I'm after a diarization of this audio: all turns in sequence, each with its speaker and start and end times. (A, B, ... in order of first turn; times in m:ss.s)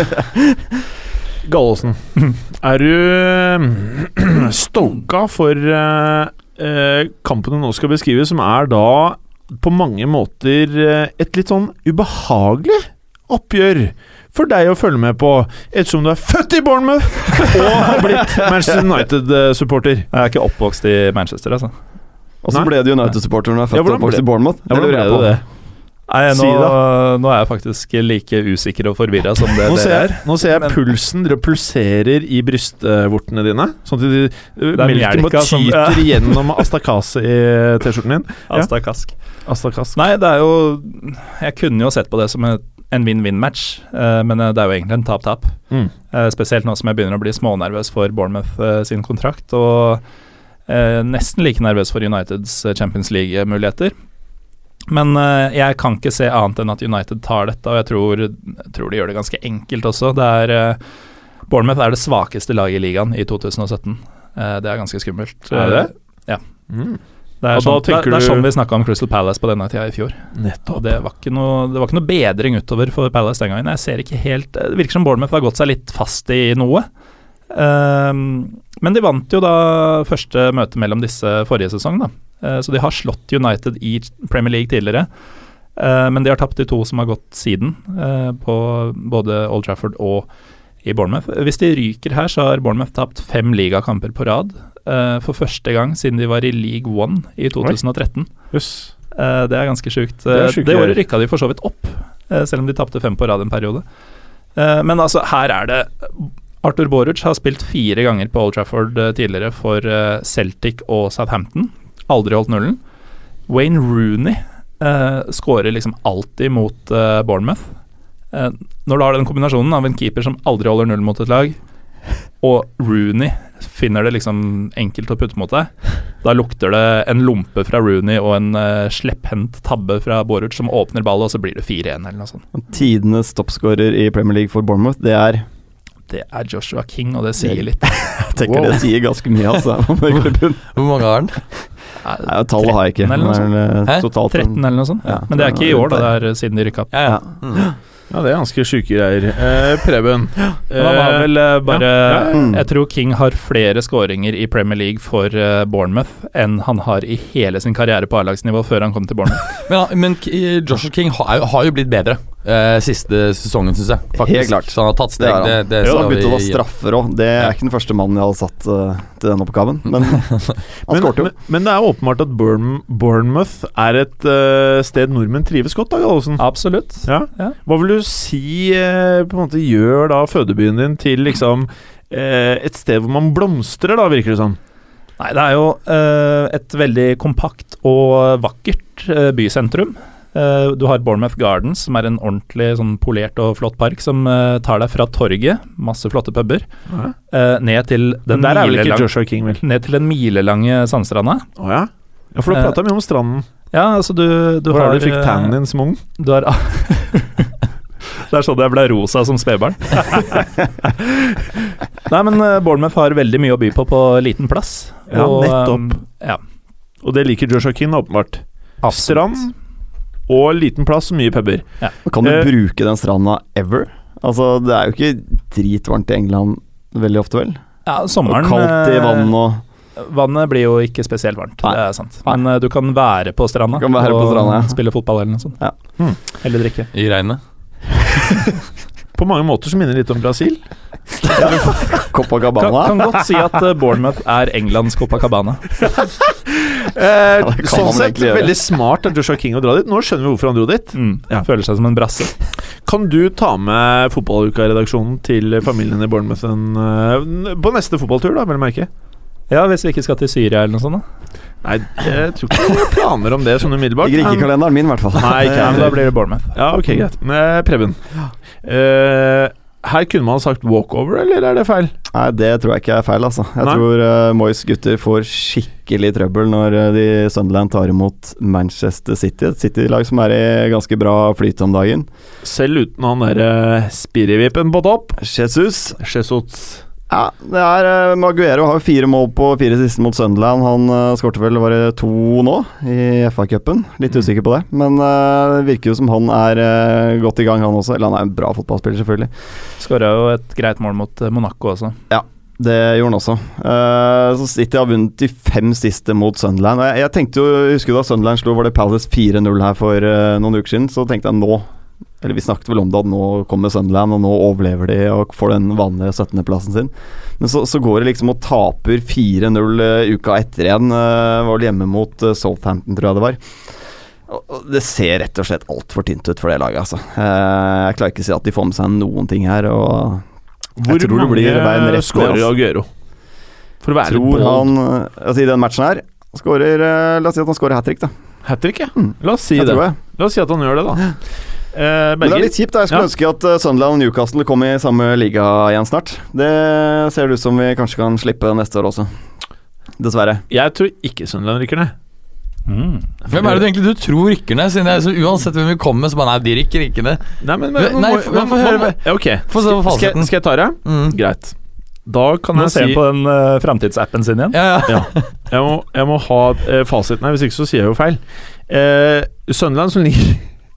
0:01.4-0:20.1 A
0:17.6-0:18.8 B
0:20.1-0:21.7 C
0:22.4-0:25.4 B
0:23.7-0:25.4 A
0:26.1-0:30.7 C
0:26.3-0:26.8 A
0:29.6-0:38.7 A
0:34.7-0:36.6 C
0:38.5-0:39.1 C
0:39.4-0:40.0 A
0:39.9-0:45.5 C
0:46.1-0:50.0 C
0:50.7-0:53.9 C
0:54.9-1:00.8 C
1:01.5-1:06.4 C
1:05.5-1:05.9 A
1:06.7-1:07.0 A
1:07.4-1:16.9 C
1:07.5-1:08.5 A
1:10.3-1:10.9 A
1:17.5-1:25.1 C
1:25.8-1:30.3 C
1:30.8-1:38.3 C
1:38.5-1:38.9 A
1:39.1-1:43.8 C
1:40.3-1:41.0 A
1:44.6-1:52.8 C
1:53.5-1:57.6 C
1:58.3-2:01.6 C
2:02.4-2:12.4 C
2:12.5-2:15.4 B
2:16.1-2:18.1 C
2:17.4-2:20.6 B
2:20.7-2:21.4 D
2:22.0-2:23.5 C
2:22.2-2:26.1 B
2:24.2-2:26.9 C
2:26.9-2:27.7 D
2:27.1-2:27.6 B
2:28.1-2:32.4 A
2:30.8-2:39.5 C
2:32.3-2:32.6 B
2:39.5-2:46.6 D
2:44.2-2:50.3 B
2:50.9-2:51.3 B
2:50.9-2:56.4 A
2:56.4-2:57.6 C
2:57.0-3:04.6 A
3:05.2-3:16.6 C
3:16.9-3:17.1 A
3:17.3-3:21.4 C
3:18.3-3:19.6 A
3:21.6-3:23.4 A
3:22.5-3:22.8 C
3:23.7-3:25.6 C
3:24.7-3:26.0 A
3:26.2-3:27.5 C
3:28.3-3:31.0 C
3:32.0-3:36.4 C
3:35.1-3:36.0 A
3:37.0-3:39.5 A
3:38.8-3:39.4 C
3:40.3-3:41.6 A
3:42.0-3:47.6 B
3:42.2-3:42.5 A
3:47.8-3:49.3 C
3:48.2-3:49.6 B
3:50.0-3:55.6 C
3:51.6-3:52.4 B
3:53.8-3:54.8 B
3:56.4-3:56.9 C
3:56.9-3:57.4 D
3:59.1-4:00.6 A
4:01.3-4:03.1 B
4:02.6-4:05.7 C
4:05.9-4:11.4 A
4:07.4-4:08.5 B
4:10.9-4:12.3 C
4:12.8-4:18.9 A
4:19.5-4:21.0 C
4:21.6-4:24.5 A
4:24.0-4:26.0 B
4:25.1-4:26.0 A
4:25.4-4:26.6 C
4:26.5-4:28.0 A
4:28.6-4:31.9 A
4:32.1-4:42.1 B
4:42.4-4:45.2 A
4:45.2-4:46.0 B
4:46.0-4:46.8 A
4:47.1-4:59.3 B
4:59.8-5:02.0 C
5:02.1-5:11.7 B
5:12.2-5:23.4 B
5:24.3-5:30.2 B
5:30.8-5:32.9 A
5:30.8-5:32.5 B
5:33.8-5:34.7 A
5:34.0-5:38.1 B
5:38.4-5:41.2 A
5:39.0-5:40.0 B
5:41.7-5:43.1 A
5:42.2-5:49.1 B
5:50.0-5:50.4 B
5:50.5-5:51.9 A
5:52.7-5:53.1 C
5:53.3-5:57.2 D
5:57.4-6:01.5 A
5:57.7-6:00.3 D
6:00.8-6:01.2 D
6:02.0-6:03.0 A
6:02.5-6:04.6 C
6:04.5-6:05.3 D
6:04.9-6:10.5 A